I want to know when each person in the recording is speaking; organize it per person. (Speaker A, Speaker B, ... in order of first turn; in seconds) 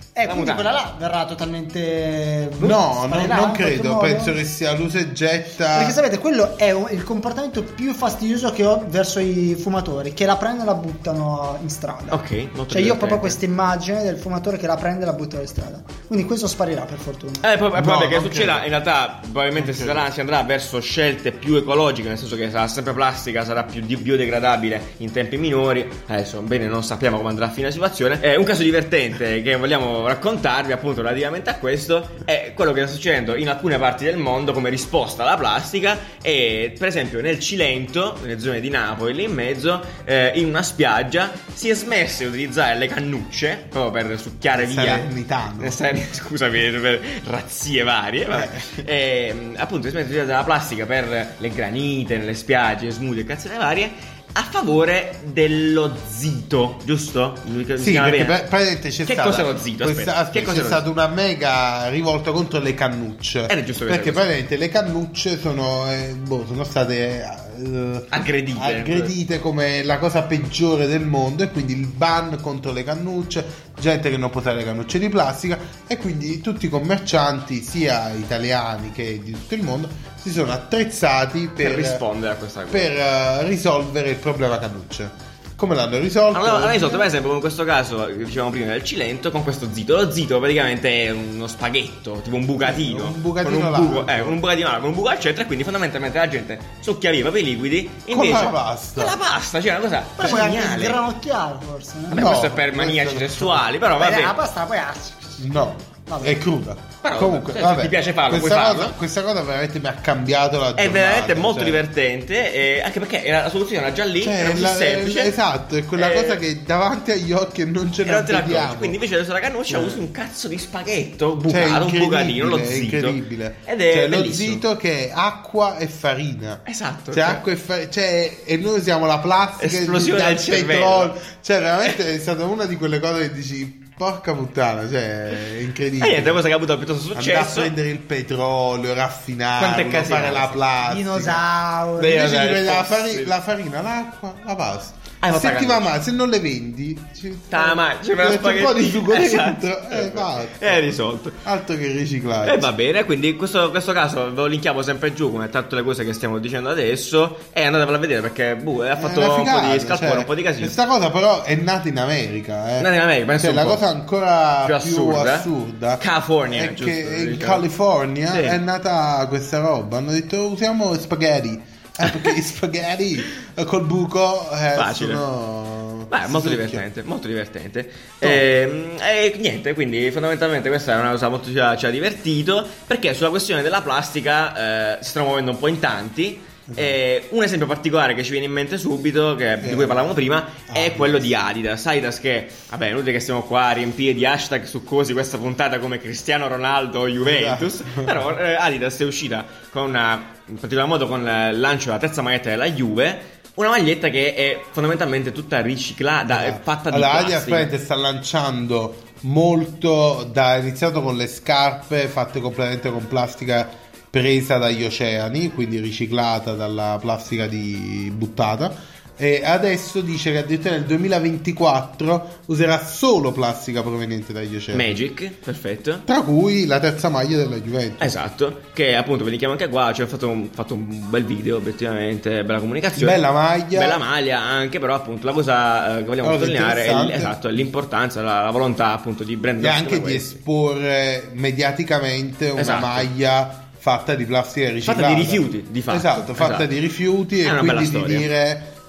Speaker A: 0.1-4.3, 5.7-17.4, 100.2-102.2, 104.0-105.4, 106.1-106.3, 140.8-142.3
Speaker B: 0.2-0.7, 12.1-13.4, 17.4-58.4, 59.0-60.8, 63.5-64.2, 68.1-69.1, 81.6-82.9, 86.3-101.0, 102.1-104.4, 107.0-109.0, 110.8-115.3, 115.9-116.4, 118.0-124.6, 126.7-127.4, 129.6-131.1, 136.0-137.7, 139.6-140.6, 142.0-143.3, 145.2-145.9, 147.5-151.4, 152.4-160.8, 162.8-163.8, 164.6-167.6, 168.3-168.6, 172.0-172.3, 174.7-175.2, 176.1-207.7, 224.7-226.0, 228.0-240.4, 242.6-243.1, 244.8-246.7, 247.4-248.3
Speaker C: 2.6-6.0, 17.7-18.7, 19.6-20.1, 44.5-45.8, 48.3-48.7, 57.8-82.0, 82.7-87.1, 92.6-94.4, 98.1-99.2, 102.1-103.7, 105.4-111.8, 114.2-119.0, 119.7-120.0, 121.5-136.4, 137.1-141.4, 142.0-150.8, 151.4-152.7, 159.0-176.8, 186.7-187.0, 189.6-190.1, 190.7-191.3, 197.2-198.2, 206.3-225.0, 226.1-228.1, 232.9-234.0, 236.2-237.4, 239.6-248.7